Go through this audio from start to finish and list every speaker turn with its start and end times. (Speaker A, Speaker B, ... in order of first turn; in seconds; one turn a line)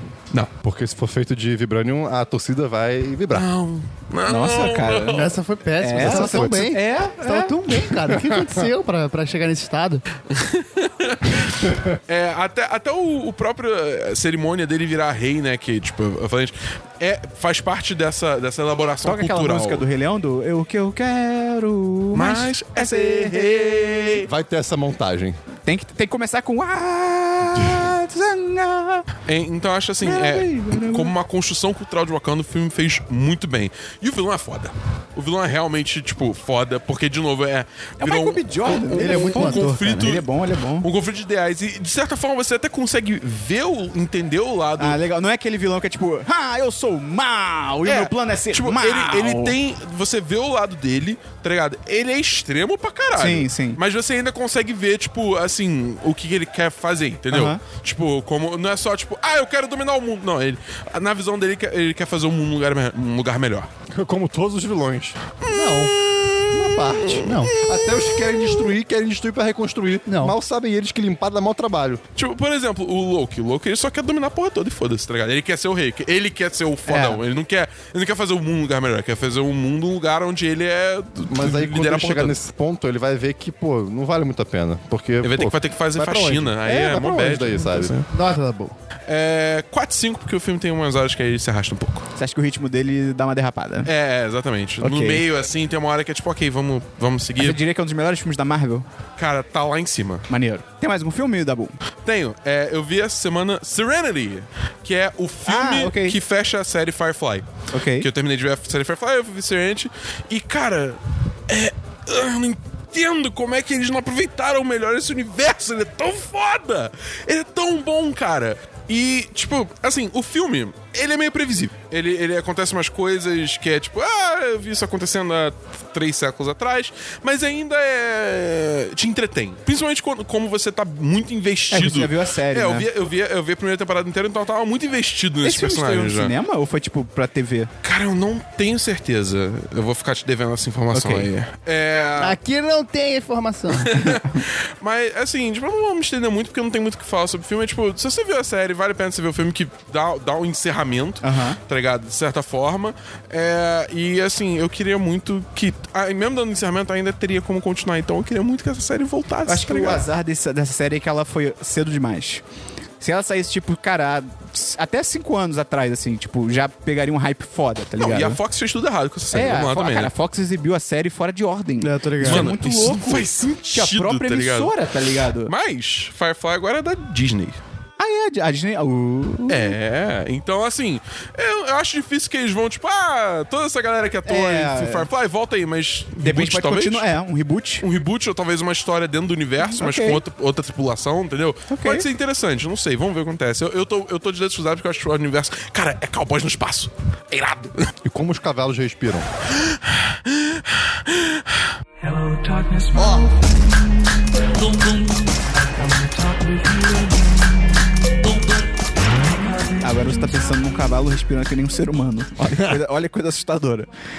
Speaker A: 0.6-3.5
Speaker B: 3.3-5.3
Speaker C: 4.2-7.6
Speaker D: 5.1-10.0
Speaker A: 6.0-6.7
Speaker A: 8.2-8.6
Speaker B: 10.3-19.8
Speaker C: 19.0-24.1
Speaker B: 22.1-24.3
Speaker A: 24.2-25.4
Speaker C: 25.6-29.1
Speaker B: 29.2-40.2
Speaker C: 30.0-31.1
Speaker C: 38.0-40.9
Speaker D: 38.9-39.9
Speaker B: 40.8-45.0
Speaker C: 44.8-49.5
Speaker B: 47.8-63.7
Speaker C: 53.1-53.8
Speaker C: 57.3-57.6
Speaker A: 63.9-65.9
Speaker B: 65.4-68.7
Speaker A: 66.5-72.0
Speaker D: 67.2-67.5
Speaker D: 70.1-70.3
Speaker B: 72.1-82.3
Speaker C: 76.9-77.2
Speaker A: 81.3-88.0
Speaker B: 85.2-88.1
Speaker D: 88.1-88.7
Speaker B: 89.1-92.1
Speaker C: 92.2-93.9
Speaker B: 93.8-97.6
Speaker C: 94.8-95.2
Speaker C: 97.4-98.8
Speaker B: 99.2-100.3
Speaker C: 100.3-101.8
Speaker B: 102.0-136.3
Speaker C: 105.5-106.2
Speaker C: 107.7-108.1
Speaker C: 131.7-132.9
Speaker C: 135.4-137.7
Speaker B: 137.8-142.4
Speaker C: 140.9-141.3
Speaker D: 142.2-144.1
Speaker B: 143.7-160.0
Speaker C: 144.0-144.4
Speaker C: 151.2-151.6
Speaker C: 159.5-162.4
Speaker C: 163.0-168.4
Speaker B: 168.0-170.1
Speaker C: 169.3-175.5
Speaker D: 171.8-172.5
Speaker B: 172.2-174.7
Speaker B: 175.4-177.6
Speaker C: 178.0-179.7
Speaker B: 179.5-187.1
Speaker C: 184.2-185.1
Speaker C: 186.2-187.8
Speaker B: 187.8-197.9
Speaker C: 189.6-190.2
Speaker C: 191.7-192.0
Speaker A: 198.0-199.3
Speaker B: 199.6-201.4
Speaker E: 202.0-210.3
Speaker C: 209.8-213.9